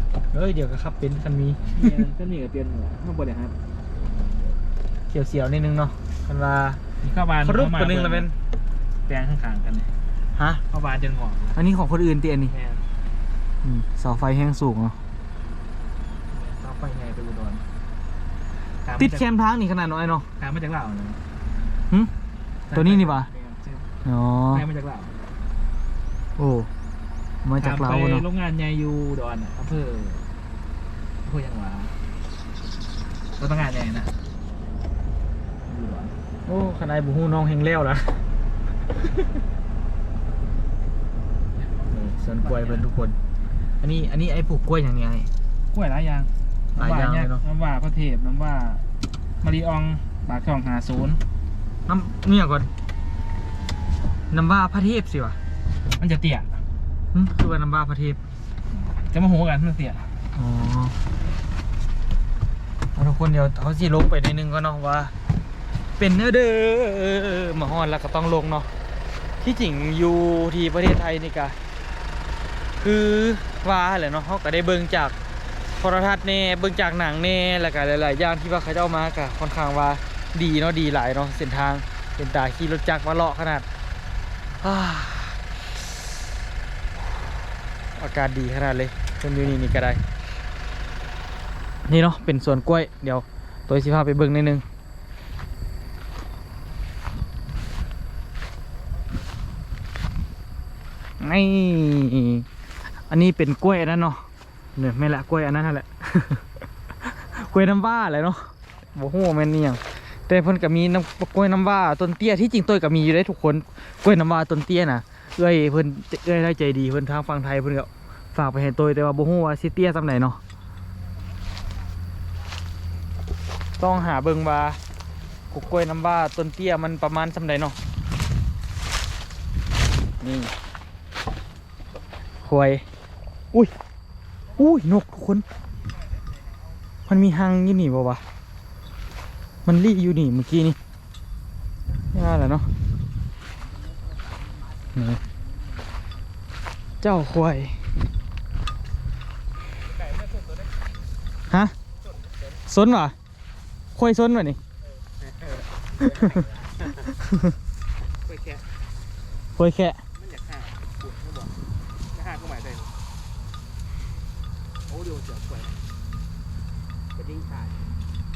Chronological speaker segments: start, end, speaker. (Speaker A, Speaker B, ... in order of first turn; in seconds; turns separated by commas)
Speaker A: 0.3-2.0, Speaker B: 1.7-3.5, Speaker A: 5.1-6.8, Speaker B: 7.0-8.3, Speaker A: 7.4-8.3, Speaker B: 9.1-9.9, Speaker A: 10.4-10.6, Speaker B: 10.7-11.6, Speaker A: 11.5-12.5, Speaker B: 12.5-12.9, Speaker A: 13.6-15.0, Speaker B: 16.3-17.6, Speaker B: 18.8-19.2, Speaker A: 19.0-20.3, Speaker B: 20.4-21.2, Speaker B: 22.7-23.9, Speaker A: 22.7-23.3, Speaker A: 24.0-24.6, Speaker B: 24.5-25.1, Speaker A: 26.4-26.7, Speaker A: 27.4-28.2, Speaker B: 27.6-30.3, Speaker B: 31.2-32.0, Speaker B: 33.4-34.2, Speaker B: 35.6-36.2, Speaker A: 36.5-38.2, Speaker A: 42.0-43.2, Speaker B: 42.4-42.9, Speaker A: 43.8-45.3, Speaker B: 45.7-48.9, Speaker A: 46.8-47.4, Speaker B: 49.4-51.2, Speaker A: 51.9-52.7, Speaker A: 54.3-55.4, Speaker B: 56.0-56.6, Speaker A: 57.1-58.2, Speaker B: 59.0-60.1, Speaker A: 60.3-61.0, Speaker A: 63.0-65.1, Speaker A: 66.0-68.7, Speaker A: 69.4-71.5, Speaker A: 72.8-75.1, Speaker A: 75.8-83.7, Speaker A: 84.6-85.4, Speaker A: 88.0-90.0, Speaker A: 91.8-94.6, Speaker A: 101.2-102.5, Speaker A: 103.1-106.4, Speaker A: 107.0-120.4, Speaker A: 123.8-124.8, Speaker A: 125.5-127.8, Speaker A: 130.2-130.5, Speaker A: 132.4-132.8, Speaker A: 134.6-135.4, Speaker A: 137.1-138.2, Speaker A: 139.6-140.8, Speaker A: 142.1-142.7, Speaker C: 143.6-145.8, Speaker A: 144.9-145.2, Speaker A: 147.0-147.8, Speaker B: 149.8-150.7, Speaker A: 151.5-151.7, Speaker B: 152.0-152.4, Speaker A: 152.7-153.1, Speaker A: 153.9-154.6, Speaker C: 155.4-156.9, Speaker A: 156.0-156.4, Speaker A: 157.3-157.5, Speaker B: 158.2-158.7, Speaker A: 159.6-160.0, Speaker B: 160.2-161.6, Speaker B: 162.1-162.9, Speaker B: 164.9-165.8, Speaker C: 167.1-167.8